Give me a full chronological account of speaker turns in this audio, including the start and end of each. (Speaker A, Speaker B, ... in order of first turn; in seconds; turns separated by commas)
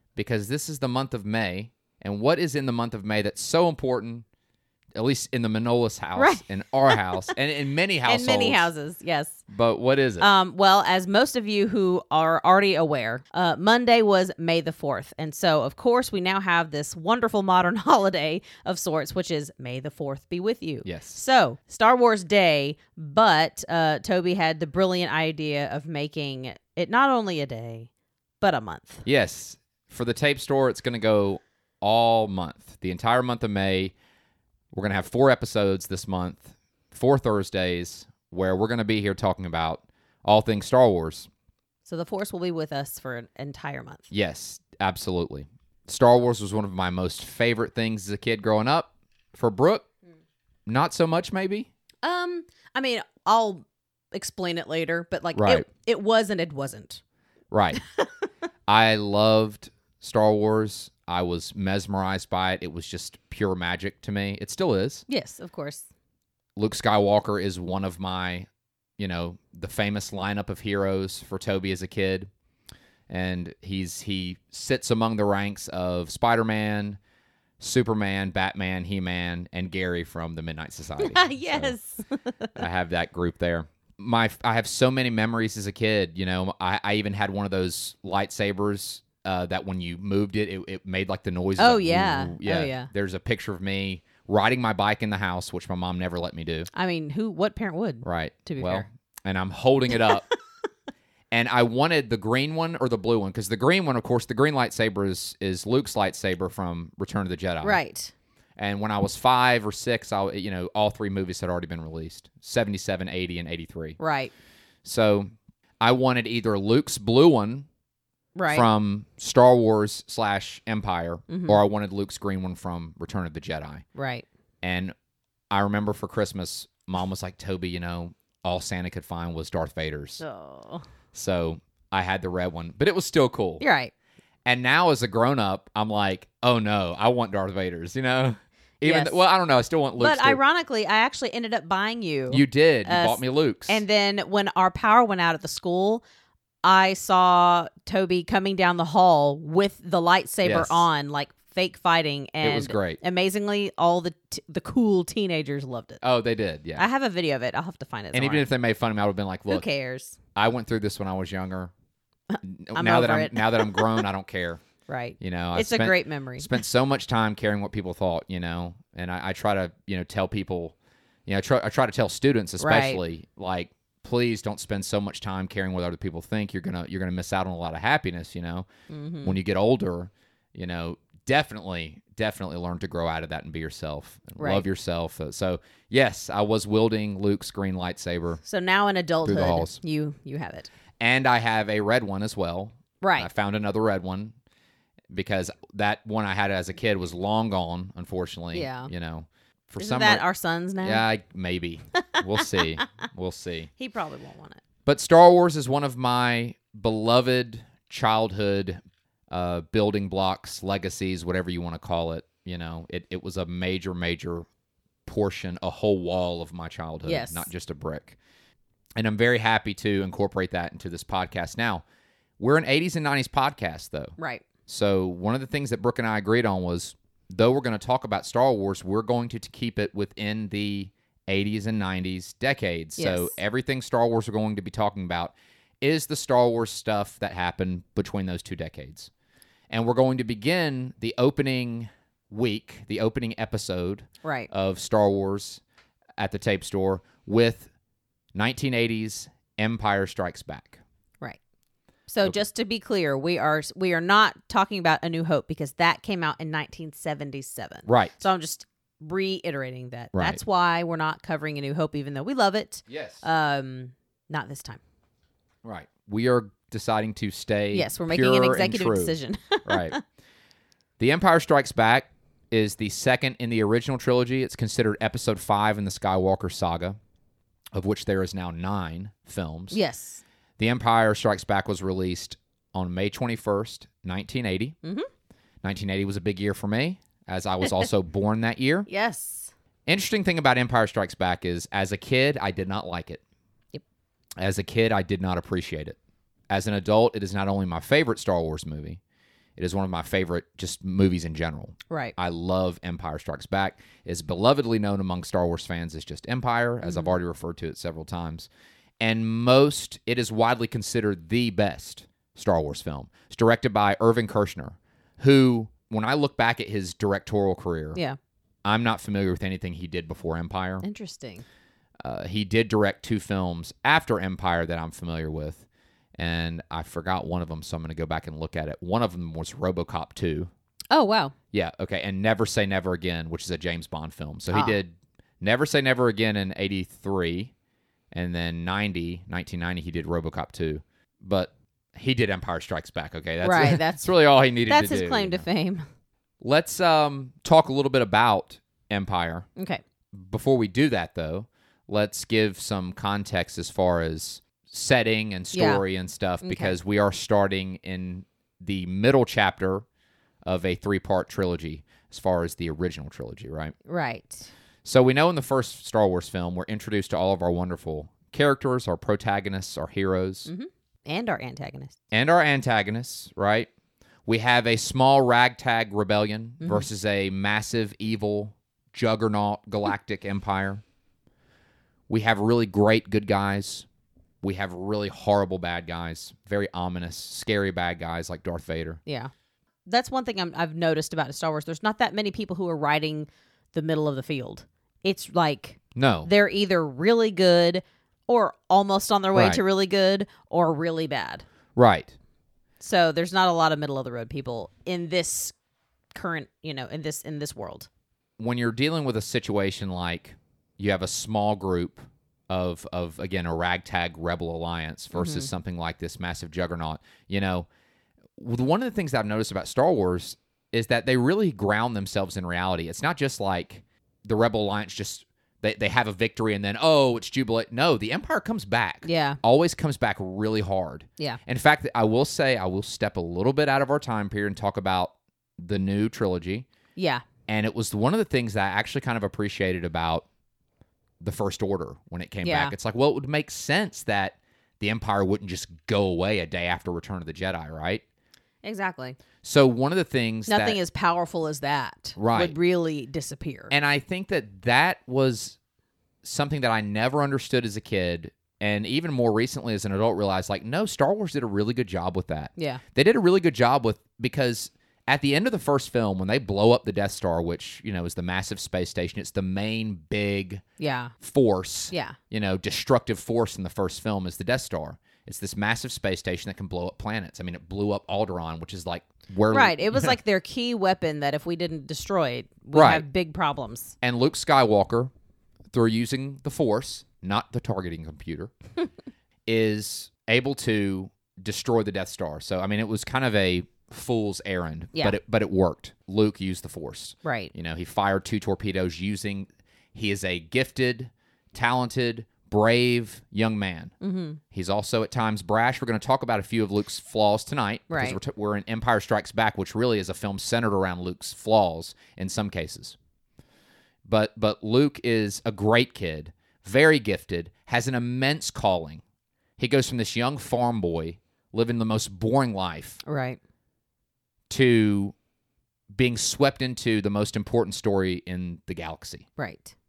Speaker A: 0.1-4.2, Speaker A: 5.0-8.7, Speaker B: 6.2-7.3, Speaker B: 8.1-9.4, Speaker A: 9.5-10.3, Speaker B: 10.2-27.9, Speaker A: 20.8-21.2, Speaker B: 28.4-29.0, Speaker A: 29.0-33.9, Speaker A: 34.7-41.3, Speaker B: 41.9-44.0, Speaker A: 44.1-49.9, Speaker A: 50.7-51.7, Speaker B: 52.0-57.0, Speaker A: 55.3-55.6, Speaker A: 57.5-57.8, Speaker A: 58.7-65.0, Speaker B: 65.1-65.8, Speaker A: 66.5-68.5, Speaker A: 69.0-72.3, Speaker A: 73.1-77.0, Speaker A: 77.6-81.7, Speaker B: 81.0-82.6, Speaker A: 82.5-96.7, Speaker B: 91.6-92.9, Speaker B: 96.7-98.9, Speaker A: 98.0-100.3, Speaker A: 101.3-107.8, Speaker B: 107.6-108.1, Speaker A: 108.6-114.0, Speaker B: 114.0-114.3, Speaker A: 114.8-117.7, Speaker B: 118.3-118.7, Speaker A: 118.5-123.8, Speaker B: 121.3-121.6, Speaker B: 124.0-124.2, Speaker A: 124.6-124.9, Speaker A: 125.5-130.2, Speaker B: 130.2-130.8, Speaker A: 131.1-133.6, Speaker B: 133.6-133.9, Speaker A: 134.4-140.4, Speaker B: 138.8-139.2, Speaker B: 140.0-146.0, Speaker A: 142.3-143.8, Speaker B: 146.6-156.0, Speaker A: 150.4-150.8, Speaker A: 152.4-153.0, Speaker A: 156.0-156.8, Speaker B: 156.8-158.5, Speaker A: 158.1-159.6, Speaker B: 159.5-160.2, Speaker A: 160.3-161.7, Speaker B: 162.3-164.1, Speaker A: 162.4-164.6, Speaker B: 164.9-166.6, Speaker A: 165.2-170.7, Speaker A: 171.2-178.7, Speaker B: 172.6-173.0, Speaker B: 178.9-179.4, Speaker A: 179.2-188.4, Speaker B: 184.4-184.6, Speaker B: 188.4-190.7, Speaker A: 189.2-189.8, Speaker A: 191.0-194.3, Speaker B: 193.0-193.3, Speaker A: 195.1-200.2, Speaker B: 198.5-198.9, Speaker B: 199.8-201.0, Speaker A: 200.8-203.7, Speaker B: 202.1-202.7, Speaker B: 203.8-204.6, Speaker A: 204.8-214.4, Speaker A: 215.1-218.2, Speaker B: 217.0-217.5, Speaker A: 219.0-221.8, Speaker A: 222.4-224.2, Speaker B: 224.2-224.4, Speaker A: 224.7-239.1, Speaker B: 233.0-233.3, Speaker A: 239.7-245.6, Speaker B: 244.2-244.5, Speaker A: 246.2-247.7, Speaker A: 248.3-250.8, Speaker B: 252.1-264.8, Speaker A: 257.9-258.2, Speaker A: 260.1-260.4, Speaker A: 262.9-263.2, Speaker A: 265.6-270.0, Speaker B: 267.7-270.0, Speaker A: 271.0-277.0, Speaker A: 277.7-279.8, Speaker B: 279.7-280.2, Speaker A: 280.6-284.8, Speaker A: 285.6-288.9, Speaker B: 288.9-289.5, Speaker A: 289.9-293.2, Speaker A: 294.4-296.0, Speaker A: 296.5-299.0, Speaker A: 299.6-308.5, Speaker B: 301.9-302.1, Speaker B: 306.8-307.1, Speaker A: 309.0-318.0, Speaker A: 318.6-320.8, Speaker B: 320.8-321.4, Speaker A: 322.0-325.6, Speaker A: 326.2-330.5, Speaker B: 330.9-331.3, Speaker A: 331.5-337.5, Speaker A: 338.1-345.4, Speaker B: 343.4-345.8, Speaker A: 346.4-349.5, Speaker A: 350.1-359.8, Speaker B: 355.5-355.8, Speaker B: 356.4-356.8, Speaker A: 360.4-363.7, Speaker B: 363.9-364.5, Speaker A: 364.8-370.5, Speaker B: 370.4-371.9, Speaker A: 372.1-373.7, Speaker A: 374.2-380.8, Speaker B: 376.6-376.9, Speaker A: 382.1-383.9, Speaker A: 384.4-389.0, Speaker B: 389.1-389.3, Speaker B: 389.9-401.4, Speaker A: 395.9-396.3, Speaker A: 399.3-399.6, Speaker A: 401.8-402.1, Speaker B: 402.8-405.5, Speaker B: 406.1-407.9, Speaker A: 408.4-417.7, Speaker B: 415.1-415.5, Speaker A: 418.4-436.7, Speaker B: 429.0-429.4, Speaker B: 436.9-437.2, Speaker A: 437.5-440.3, Speaker A: 441.2-448.0, Speaker B: 442.4-442.7, Speaker B: 448.6-449.2, Speaker A: 449.4-450.8, Speaker B: 450.5-453.7, Speaker A: 452.2-452.5, Speaker A: 453.7-455.6, Speaker A: 456.2-470.6, Speaker B: 462.6-462.8, Speaker B: 470.8-471.1, Speaker A: 471.2-480.1, Speaker B: 471.9-472.2, Speaker B: 479.5-483.9, Speaker A: 482.7-483.0, Speaker A: 484.0-485.1, Speaker A: 485.7-488.5, Speaker A: 489.5-503.9, Speaker B: 497.2-497.5, Speaker B: 504.0-504.4, Speaker A: 504.5-513.0, Speaker B: 507.9-508.2, Speaker A: 514.0-519.0, Speaker A: 519.6-523.0, Speaker B: 523.0-523.4, Speaker A: 524.5-525.1, Speaker A: 525.9-529.2, Speaker B: 529.4-529.7